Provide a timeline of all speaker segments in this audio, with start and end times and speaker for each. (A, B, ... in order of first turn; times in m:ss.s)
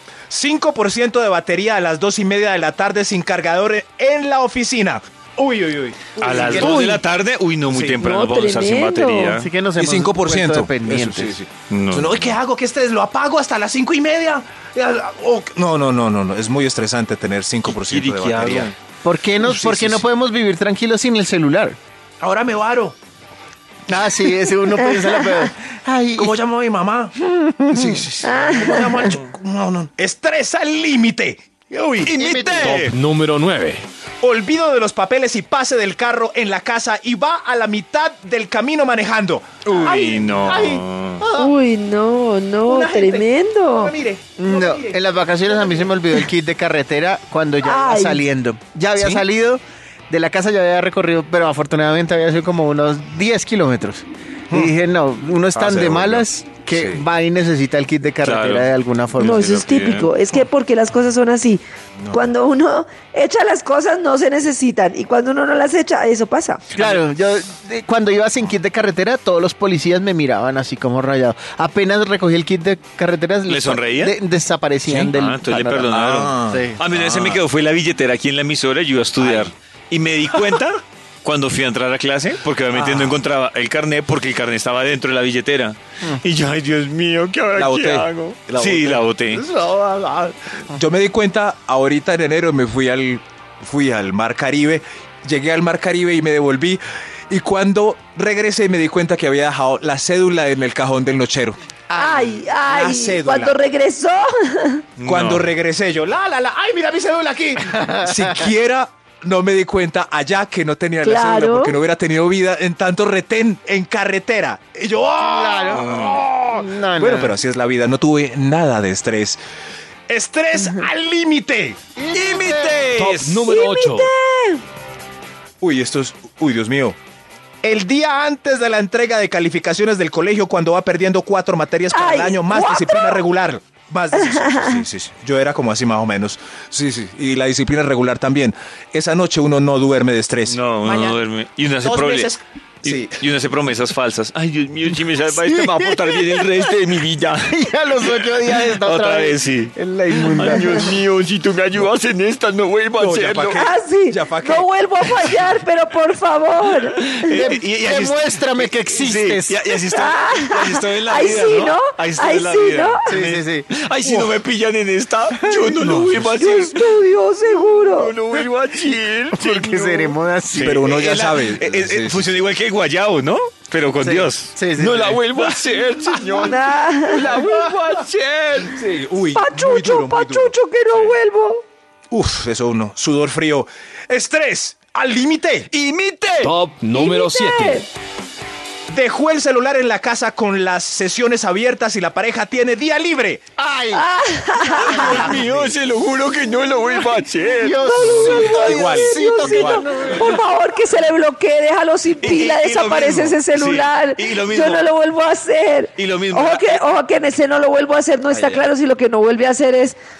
0:00.3-0:07.0 A
0:06.2-0:09.5 B
0:06.5-0:07.0 C
0:07.6-0:08.0 A
0:08.0-0:09.4 C
0:09.3-0:11.4 D
0:09.8-0:18.7 A
0:11.7-0:12.4 B
0:17.6-0:18.7 B
0:19.0-0:21.8 D
0:19.4-0:20.0 A
0:22.2-0:23.0 A
0:23.9-0:26.4 D
0:24.3-0:24.5 A
0:26.2-0:27.2 A
0:27.2-0:28.0 D
0:27.7-0:32.2 A
0:28.2-0:28.9 C
0:32.0-0:33.0 B
0:32.2-0:32.8 D
0:32.6-0:33.8 E
0:34.2-0:41.5 A
0:39.6-0:41.2 B
0:41.4-0:43.9 C
0:42.6-0:43.3 A
0:43.8-0:45.9 A
0:44.4-0:59.5 D
0:47.6-0:48.2 C
0:49.0-0:49.2 A
0:55.5-0:57.0 A
0:58.2-1:00.1 B
0:59.2-1:06.6 C
1:02.0-1:02.3 A
1:06.7-1:07.0 B
1:06.8-1:16.8 D
1:13.4-1:14.2 B
1:14.8-1:29.4 B
1:15.9-1:17.4 A
1:19.2-1:19.5 A
1:22.7-1:23.2 A
1:27.6-1:29.6 A
1:29.4-1:30.3 D
1:30.7-1:41.6 A
1:42.0-1:44.8 C
1:42.6-1:43.6 A
1:45.0-1:45.5 B
1:45.0-1:59.4 A
1:47.8-1:48.5 D
1:51.0-1:51.7 C
1:55.2-1:55.9 D
1:55.6-1:56.2 B
1:56.5-1:57.4 D
2:00.1-2:01.8 A
2:02.0-2:02.9 D
2:02.1-2:03.4 B
2:02.9-2:04.1 E
2:03.4-2:04.6 C
2:05.6-2:07.0 A
2:07.6-2:21.2 A
2:11.9-2:13.2 C
2:14.1-2:14.8 C
2:20.4-2:33.6 B
2:21.8-2:23.2 A
2:25.3-2:26.8 D
2:27.5-2:31.0 D
2:33.0-2:35.4 A
2:33.5-2:37.4 C
2:36.8-2:46.9 B
2:37.3-2:39.6 D
2:39.9-2:43.1 C
2:43.1-2:43.7 D
2:44.0-2:44.3 A
2:45.8-2:46.3 A
2:46.4-2:48.1 C
2:47.9-2:58.9 B
2:49.3-2:50.8 D
2:50.6-2:52.3 A
2:53.9-2:55.2 D
2:56.4-2:57.3 C
2:57.3-2:57.6 A
2:58.7-3:00.5 A
2:59.3-3:01.6 C
3:02.1-3:05.7 A
3:05.7-3:06.6 B
3:06.4-3:07.8 E
3:06.9-3:07.9 C
3:08.9-3:13.4 A
3:13.6-3:14.0 D
3:13.9-3:15.3 C
3:14.6-3:18.5 B
3:14.8-3:15.7 D
3:17.6-3:20.4 D
3:17.8-3:30.0 C
3:18.4-3:19.8 A
3:20.0-3:20.3 B
3:22.2-3:24.9 B
3:26.0-3:26.8 B
3:28.3-3:28.6 B